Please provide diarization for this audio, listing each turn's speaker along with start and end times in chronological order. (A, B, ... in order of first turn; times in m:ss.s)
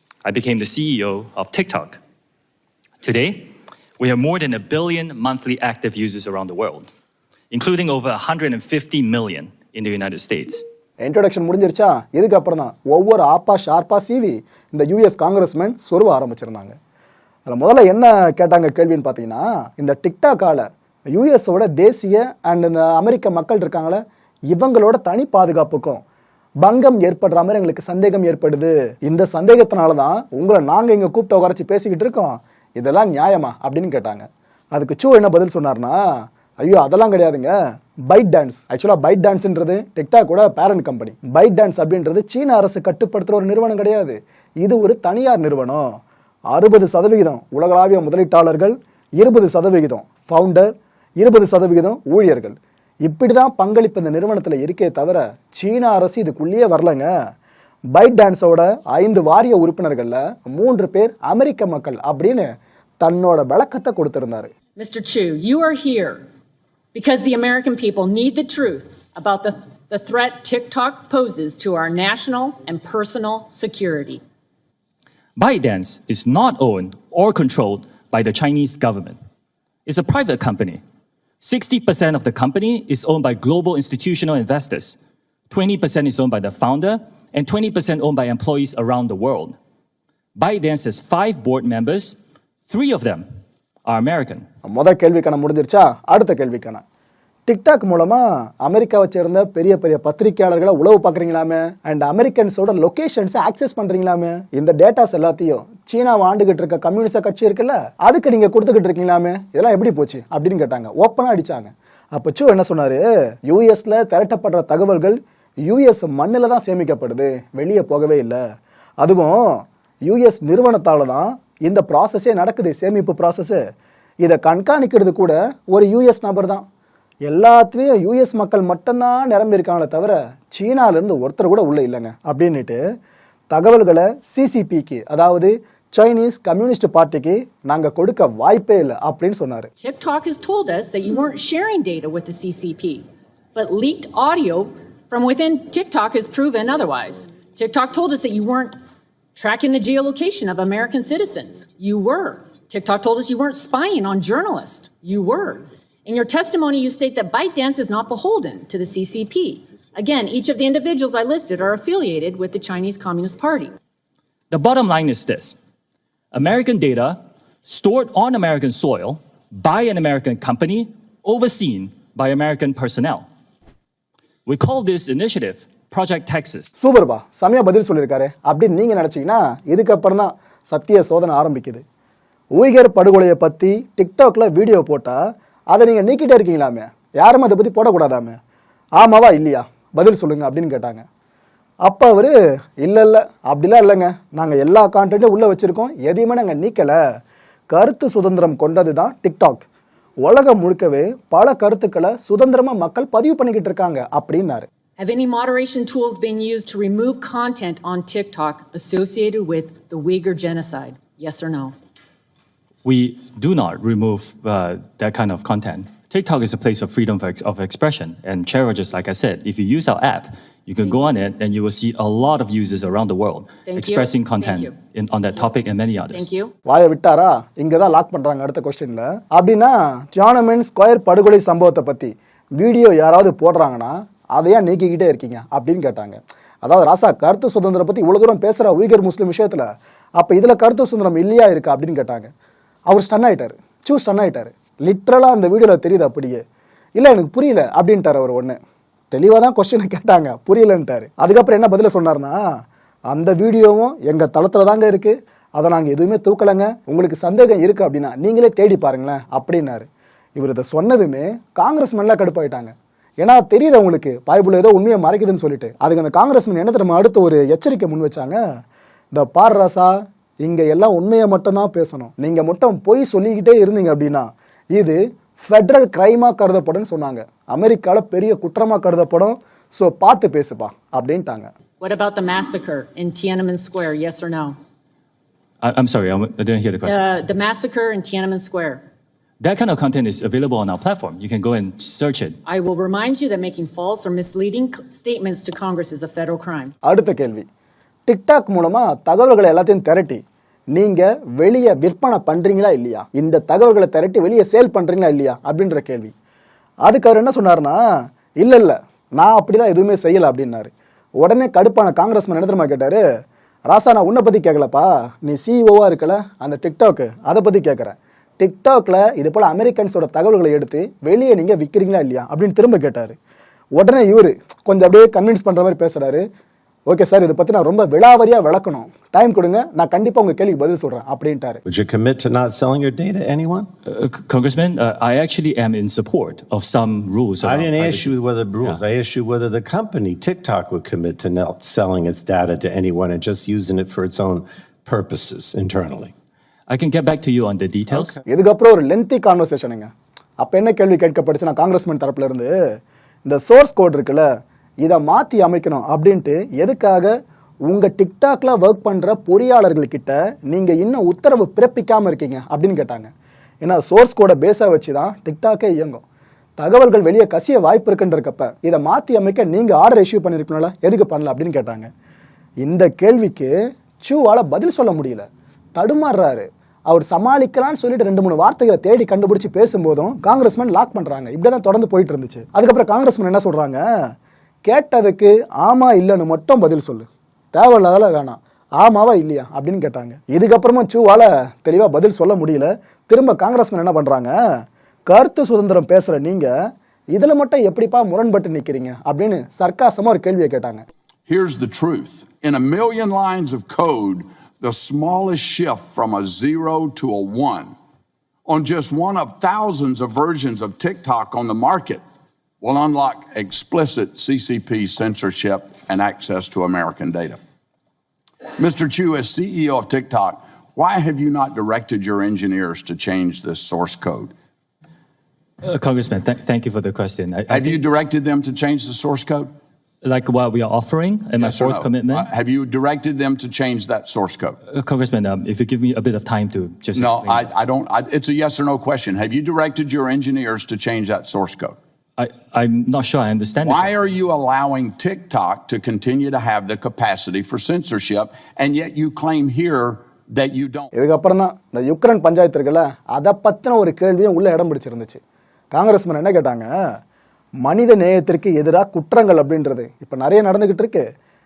0:00.2-0:02.0 A
0:03.0-0:06.9 A
0:07.5-0:10.6 A
0:11.0-0:16.8 B
0:17.5-0:26.0 B
0:26.6-0:36.0 B
0:36.6-0:37.5 B
0:38.1-0:46.0 B
0:46.5-0:57.1 B
0:57.9-1:02.5 B
1:03.0-1:04.5 B
1:04.8-1:06.2 C
1:06.9-1:14.2 C
1:15.4-1:19.2 A
1:19.8-1:20.8 A
1:21.4-1:25.0 A
1:25.5-1:29.5 A
1:30.4-1:32.2 A
1:32.7-1:33.2 A
1:33.8-1:34.4 A
1:34.6-1:36.8 B
1:37.5-1:58.4 B
1:59.0-2:03.6 B
2:04.2-2:06.6 B
2:07.2-2:12.8 B
2:13.5-2:19.7 B
2:19.8-2:23.0 C
2:23.5-2:28.7 C
2:29.4-2:43.7 C
2:44.5-2:45.5 A
2:46.3-2:53.2 A
2:54.4-2:56.7 A
2:56.8-3:01.8 B
3:02.6-3:08.4 B
3:09.0-3:11.0 B
3:11.8-3:17.0 B
3:17.7-3:19.6 B
3:20.2-3:24.7 B
3:25.0-3:31.7 C
3:32.8-3:46.3 A
3:43.7-3:44.7 C
3:46.1-3:46.5 C
3:46.6-4:02.3 B
4:02.9-4:06.4 B
4:07.0-4:08.6 B
4:09.1-4:12.4 B
4:13.1-4:28.4 B
4:29.1-4:41.5 B
4:41.8-4:44.6 C
4:45.6-4:47.0 A
4:46.8-4:48.8 C
4:49.4-4:52.4 A
4:52.4-4:56.7 C
4:56.8-4:57.4 B
4:58.0-5:00.2 B
5:00.7-5:06.1 B
5:06.8-5:07.8 B
5:08.4-5:13.0 B
5:13.7-5:23.2 B
5:23.8-5:26.2 B
5:26.9-5:31.6 B
5:31.6-5:33.7 D
5:33.8-5:38.8 A
5:37.4-5:46.1 D
5:46.7-5:48.1 A
5:48.3-5:52.5 B
5:53.2-5:54.3 B
5:54.8-5:57.2 B
5:57.7-6:03.1 B
6:03.6-6:06.0 B
6:06.6-6:11.9 B
6:12.6-6:23.8 B
6:24.6-6:34.3 B
6:35.1-6:36.5 B
6:37.1-6:40.8 B
6:41.3-6:47.7 E
6:48.5-6:52.0 E
6:52.6-6:57.4 E
6:58.6-7:04.3 E
7:05.6-7:07.8 A
7:07.5-7:09.5 E
7:10.0-7:12.3 A
7:11.4-7:14.6 E
7:14.7-7:17.5 A
7:16.9-7:21.8 E
7:22.2-7:24.1 A
7:23.6-7:30.9 E
7:30.9-7:35.2 B
7:35.7-7:36.7 B
7:37.6-7:41.0 B